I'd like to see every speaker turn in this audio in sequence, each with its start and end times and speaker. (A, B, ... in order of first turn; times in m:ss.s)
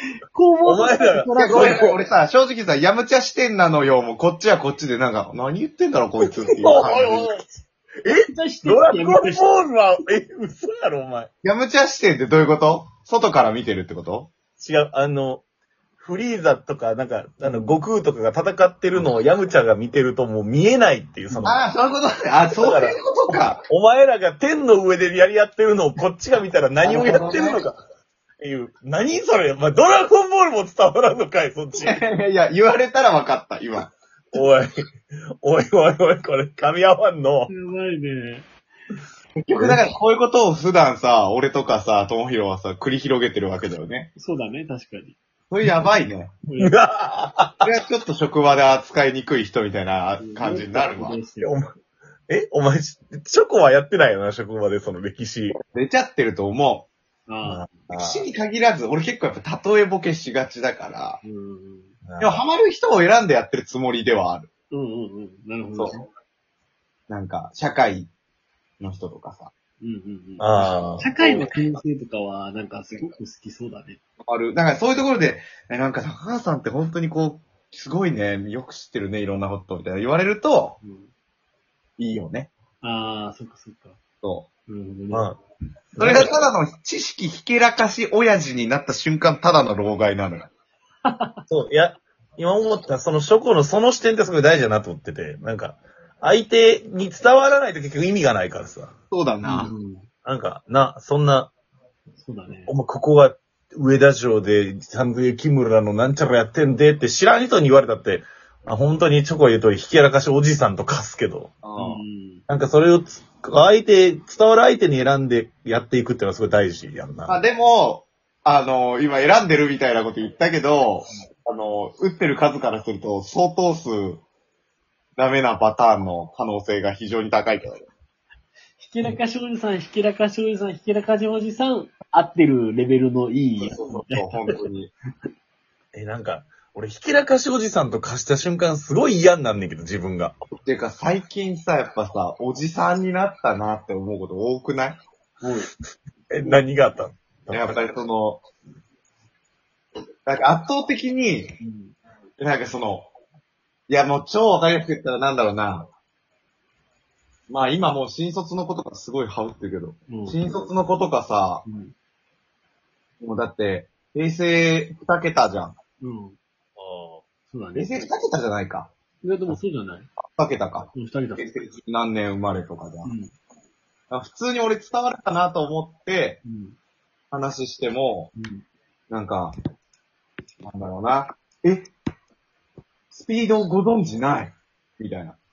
0:00.3-0:01.9 A
0:00.7-0:01.8 B
0:01.4-0:07.3 C
0:06.3-0:07.5 B
0:08.0-0:11.3 B
0:08.1-0:09.5 A
0:11.4-0:14.3 C
0:14.6-0:15.4 B
0:16.0-0:21.6 B
0:17.4-0:17.8 A
0:21.3-0:21.6 A
0:21.5-0:23.6 C
0:22.6-0:27.8 B
0:26.8-0:27.6 C
0:28.4-0:32.0 B
0:31.8-0:33.9 C
0:34.3-0:34.7 B
0:35.4-0:37.5 B
0:37.5-0:38.4 A
0:39.4-0:44.1 C
0:44.2-0:45.2 A
0:45.5-0:46.4 C
0:46.5-0:46.8 A
0:46.6-0:47.7 B
0:47.6-0:51.2 C
0:50.2-0:51.6 A
0:51.4-0:51.7 B
0:52.3-0:55.6 B
0:55.6-0:56.9 C
0:57.3-0:57.7 A
0:57.4-0:58.3 B
0:57.9-1:01.2 C
1:01.2-1:02.0 A
1:02.0-1:02.4 B
1:02.2-1:04.5 C
1:04.7-1:06.1 A
1:07.1-1:08.1 C
1:08.8-1:09.5 C
1:09.8-1:14.0 A
1:10.4-1:11.1 B
1:11.2-1:11.5 C
1:14.2-1:20.8 C
1:20.8-1:21.1 A
1:22.0-1:22.5 C
1:22.8-1:24.0 A
1:24.2-1:24.5 C
1:24.7-1:25.3 A
1:25.1-1:25.4 B
1:26.0-1:26.4 B
1:26.0-1:30.5 C
1:31.1-1:31.4 A
1:31.5-1:38.9 B
1:39.1-1:39.7 C
1:39.4-1:40.1 A
1:40.2-1:41.5 B
1:42.2-1:42.7 A
1:42.7-1:51.6 B
1:51.6-1:52.0 C
1:51.8-1:52.4 A
1:52.5-1:57.4 B
1:57.3-2:04.2 C
2:05.2-2:07.9 C
2:08.8-2:14.6 A
2:13.6-2:14.9 C
2:15.9-2:20.4 B
2:20.6-2:25.0 C
2:25.4-2:25.7 A
2:26.3-2:27.7 B
2:27.5-2:28.4 C
2:30.3-2:31.6 C
2:31.6-2:32.0 A
2:32.4-2:33.1 C
2:33.9-2:35.9 C
2:37.5-2:41.6 C
2:40.1-2:40.7 A
2:41.7-2:41.9 A
2:43.2-2:45.8 C
2:46.0-2:46.4 A
2:46.8-2:47.2 B
2:47.5-2:48.1 A
2:47.8-2:48.9 C
2:49.2-2:50.1 A
2:50.3-2:53.1 C
2:50.9-2:51.6 A
2:53.0-2:53.3 A
2:54.1-2:56.4 C
2:56.4-2:56.8 A
2:57.3-2:58.3 C
2:58.4-2:58.6 A
2:59.1-2:59.6 C
3:00.6-3:01.9 C
3:03.1-3:05.4 C